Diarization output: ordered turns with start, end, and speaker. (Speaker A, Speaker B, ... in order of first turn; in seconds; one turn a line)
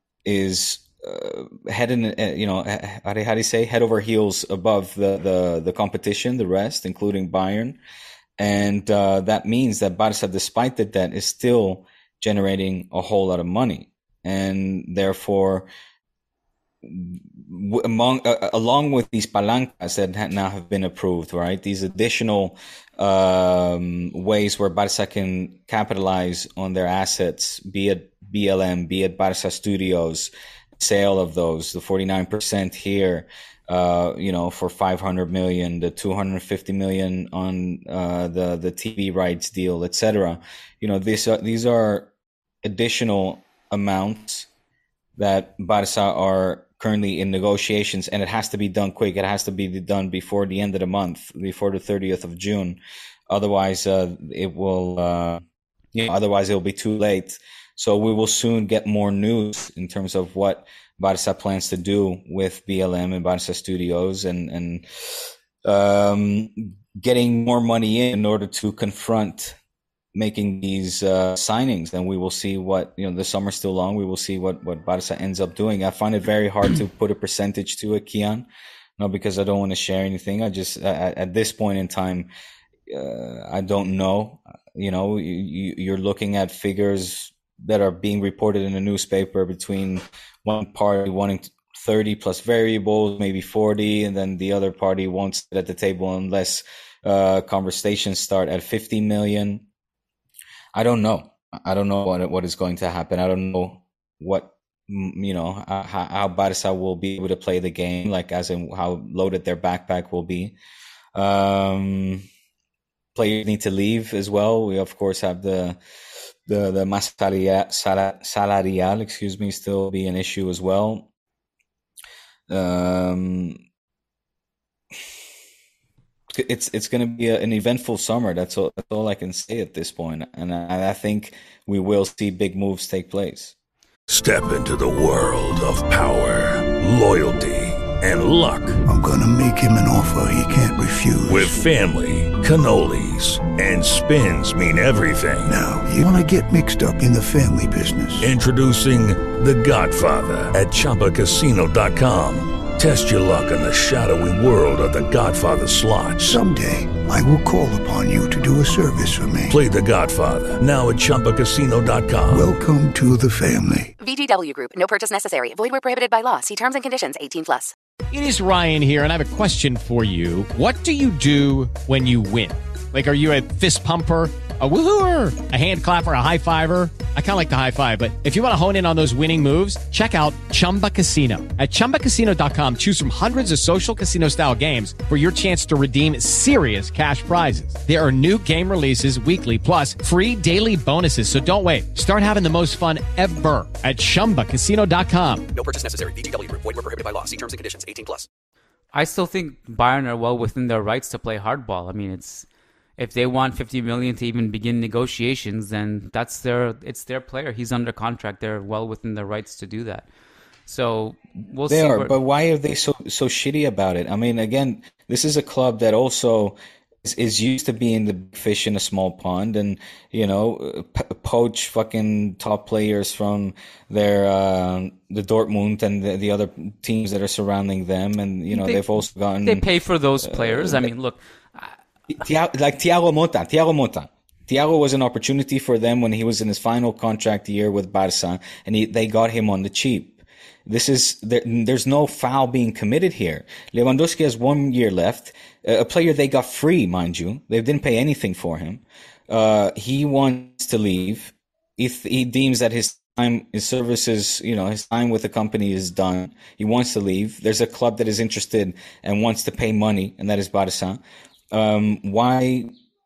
Speaker A: 0.2-7.8
Speaker A: 8.4-15.7
Speaker A: 16.8-42.1
Speaker A: 42.6-44.5
Speaker A: 45.2-55.4
Speaker A: 55.9-69.5
Speaker A: 70.1-82.3
Speaker A: 82.9-99.6
Speaker A: 100.7-110.6
Speaker A: 111.1-112.2
Speaker A: 113.1-115.8
Speaker A: 116.5-121.1
Speaker A: 122.5-123.6
Speaker A: 126.3-133.5
Speaker B: 134.1-138.8
Speaker C: 138.8-141.6
Speaker B: 141.2-145.6
Speaker C: 145.4-148.3
Speaker B: 148.2-156.4
Speaker C: 156.2-159.6
Speaker B: 159.5-162.5
Speaker C: 162.3-163.9
Speaker D: 164.0-167.7
Speaker E: 168.1-195.4
Speaker F: 195.5-198.3
Speaker G: 198.9-202.4
Speaker G: 203.0-210.1
Speaker G: 210.7-212.1
Speaker A: 211.7-229.7
Speaker G: 228.5-231.8
Speaker A: 230.2-230.9
Speaker A: 232.2-262.7